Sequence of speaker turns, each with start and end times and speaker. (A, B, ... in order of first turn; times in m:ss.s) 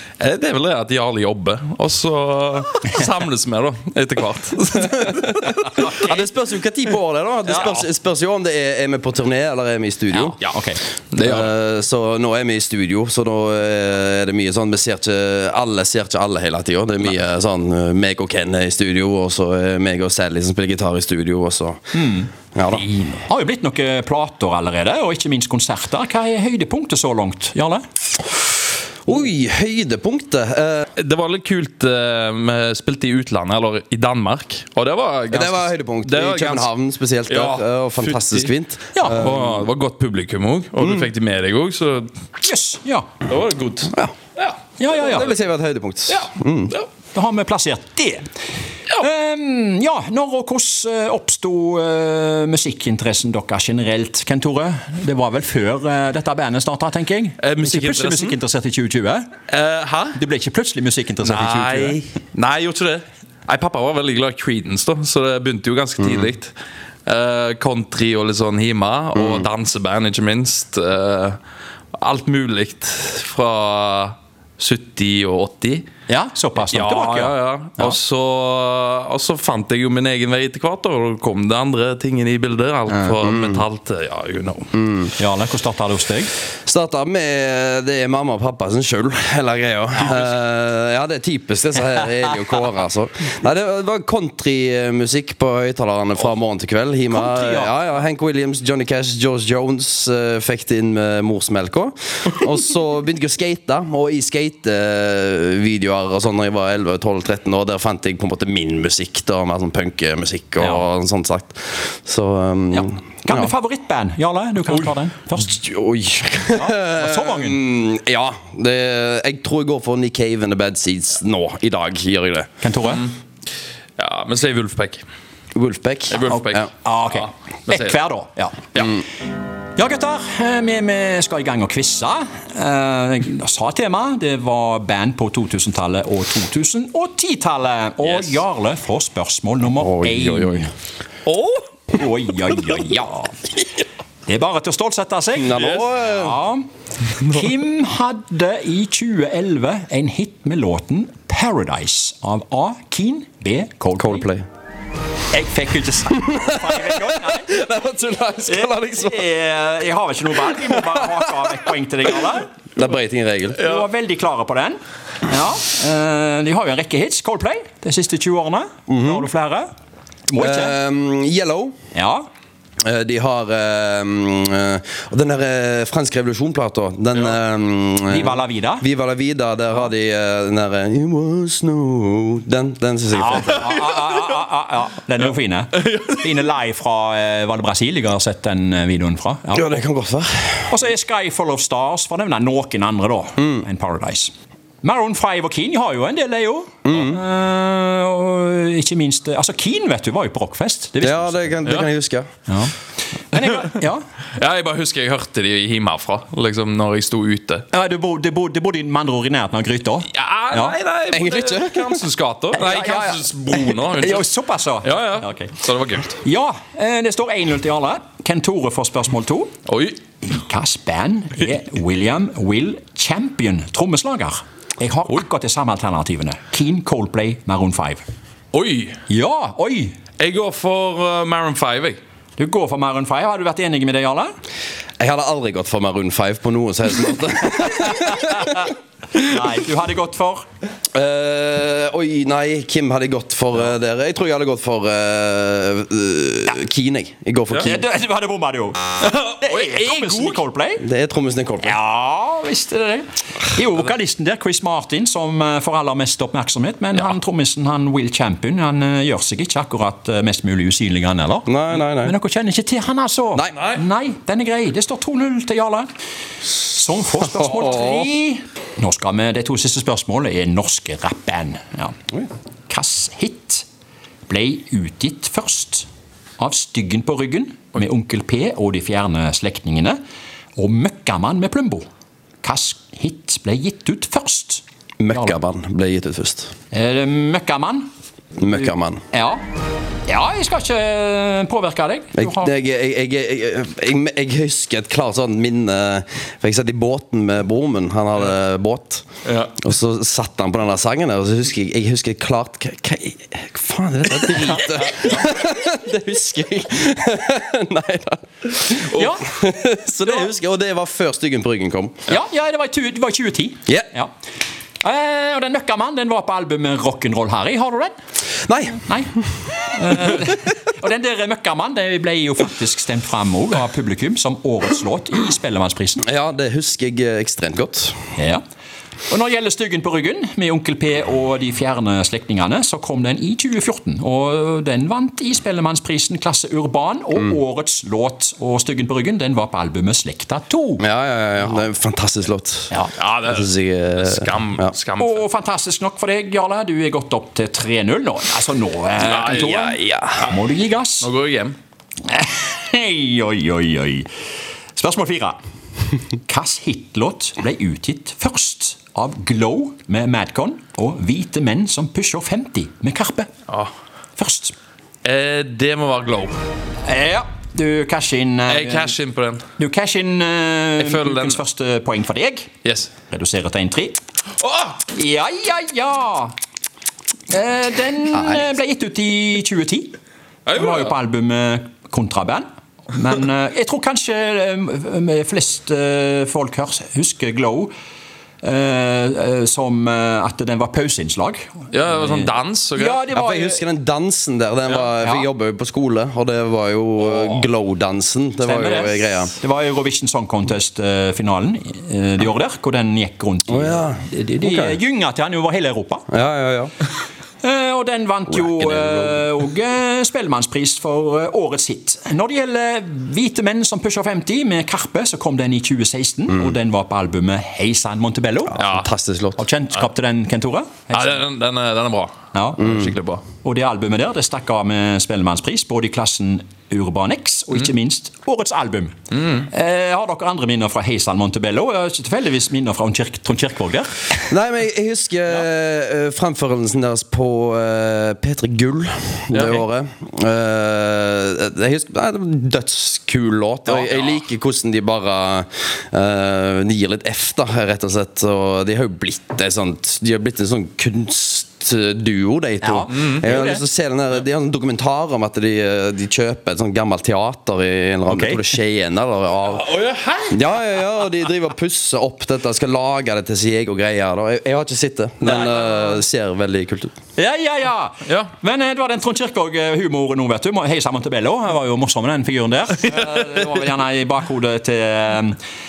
0:00.2-0:05.9 A
0:05.8-0:06.2 B
0:05.8-0:10.4 C
0:10.1-0:10.8 B
0:11.1-0:11.5 A
0:11.2-0:21.8 C
0:21.9-0:27.8 B
0:22.5-0:23.0 C
0:29.0-0:30.9 C
0:31.0-0:36.7 A
0:35.3-0:39.5 C
0:37.3-0:38.5 A
0:39.0-0:39.2 B
0:39.0-0:42.1 A
0:42.4-0:43.1 B
0:43.3-0:44.6 A
0:44.8-0:45.3 B
0:44.9-0:46.8 C
0:46.1-0:46.9 A
0:47.1-0:48.3 B
0:49.0-0:59.3 B
0:57.4-0:58.4 A
0:59.5-1:00.2 A
1:00.2-1:02.0 B
1:01.2-1:06.6 A
1:07.1-1:11.4 A
1:09.2-1:09.5 C
1:12.0-1:15.9 A
1:16.1-1:18.0 B
1:16.7-1:24.7 A
1:22.9-1:23.6 C
1:24.8-1:25.1 C
1:25.2-1:26.3 B
1:26.7-1:53.5 C
1:37.1-1:37.7 B
1:52.7-1:55.6 B
1:55.4-2:02.5 C
1:56.5-1:57.6 B
2:02.6-2:03.1 B
2:04.0-2:05.0 A
2:05.5-2:06.7 C
2:06.1-2:08.0 A
2:06.2-2:08.9 B
2:08.8-2:09.0 A
2:09.8-2:20.7 B
2:18.0-2:18.4 A
2:19.8-2:20.7 C
2:21.3-2:21.6 A
2:21.9-2:23.5 B
2:24.2-2:34.3 B
2:25.4-2:26.4 C
2:34.0-2:34.5 C
2:35.3-2:37.6 B
2:37.1-2:39.2 C
2:38.5-2:42.5 B
2:42.8-2:43.8 C
2:43.6-2:49.7 B
2:48.9-2:49.3 C
2:50.3-2:50.8 B
2:50.4-2:51.8 C
2:51.9-2:52.3 B
2:52.8-3:03.9 C
2:58.1-2:58.8 B
3:03.2-3:09.8 B
3:09.5-3:10.7 C
3:10.7-3:21.6 B
3:16.8-3:17.2 C
3:21.0-3:22.3 C
3:21.6-3:21.9 A
3:22.5-3:22.7 B
3:23.3-3:24.0 B
3:24.4-3:27.7 A
3:27.7-3:30.8 B
3:30.1-3:34.3 A
3:31.1-3:32.0 C
3:32.6-3:35.6 B
3:34.8-3:36.2 A
3:36.1-3:39.5 B
3:39.7-3:40.0 A
3:40.2-3:48.0 B
3:48.5-3:49.0 A
3:49.1-3:50.0 B
3:50.2-3:52.0 A
3:52.4-3:54.3 B
3:55.0-3:58.7 C
3:59.2-4:00.5 B
4:01.0-4:07.8 C
4:07.6-4:10.8 B
4:09.0-4:10.4 A
4:10.8-4:11.8 C
4:11.6-4:25.9 B
4:21.5-4:22.1 C
4:23.4-4:23.7 C
4:26.6-4:32.0 B
4:27.6-4:28.0 C
4:32.7-4:33.7 B
4:34.3-4:35.9 B
4:36.4-4:40.0 B
4:40.6-4:41.9 B
4:42.4-4:45.4 B
4:45.0-4:46.5 C
4:46.7-4:47.9 B
4:48.4-4:49.0 C
4:48.5-4:49.4 B
4:50.1-4:52.5 B
4:52.2-4:59.0 C
4:59.3-4:59.6 A
4:59.6-5:12.0 C
5:08.9-5:09.4 B
5:12.1-5:14.1 B
5:14.8-5:18.0 B
5:18.4-5:18.9 C
5:18.8-5:26.0 B
5:26.0-5:28.1 C
5:28.2-5:28.4 B
5:29.1-5:40.9 B
5:40.8-5:44.7 C
5:43.0-5:45.2 A
5:45.0-5:51.1 B
5:49.0-5:49.7 A
5:49.2-5:50.3 C
5:51.0-5:51.6 A
5:52.0-5:54.1 B
5:54.8-5:55.4 B
5:56.3-6:03.3 B
6:04.2-6:04.6 B
6:05.0-6:06.4 A
6:06.8-6:09.0 B
6:08.5-6:09.4 A
6:09.6-6:12.5 B
6:10.8-6:11.4 A
6:12.6-6:12.9 A
6:13.1-6:14.0 B
6:14.4-6:14.8 A
6:14.9-6:16.4 B
6:17.3-6:20.0 B
6:20.5-6:20.9 A
6:20.5-6:27.7 B
6:28.4-6:33.6 B
6:31.7-6:33.0 A
6:33.1-6:39.3 C
6:35.0-6:35.3 B
6:38.4-6:46.1 B
6:43.5-6:44.8 C
6:46.1-6:46.7 C
6:47.4-6:58.7 B
6:48.5-6:49.1 C
6:58.6-6:58.9 A
6:58.6-6:59.4 C
6:59.4-7:01.2 B
7:00.9-7:03.2 A
7:02.3-7:02.8 B
7:02.6-7:02.9 C
7:03.4-7:14.3 B
7:14.3-7:39.7 C
7:19.3-7:19.6 A
7:23.7-7:24.1 B
7:32.6-7:33.6 B
7:32.9-7:33.2 A
7:38.1-7:38.4 B
7:39.5-7:40.4 A
7:40.3-7:46.9 C
7:45.2-7:45.7 A
7:47.2-7:55.4 B
7:48.0-7:48.3 A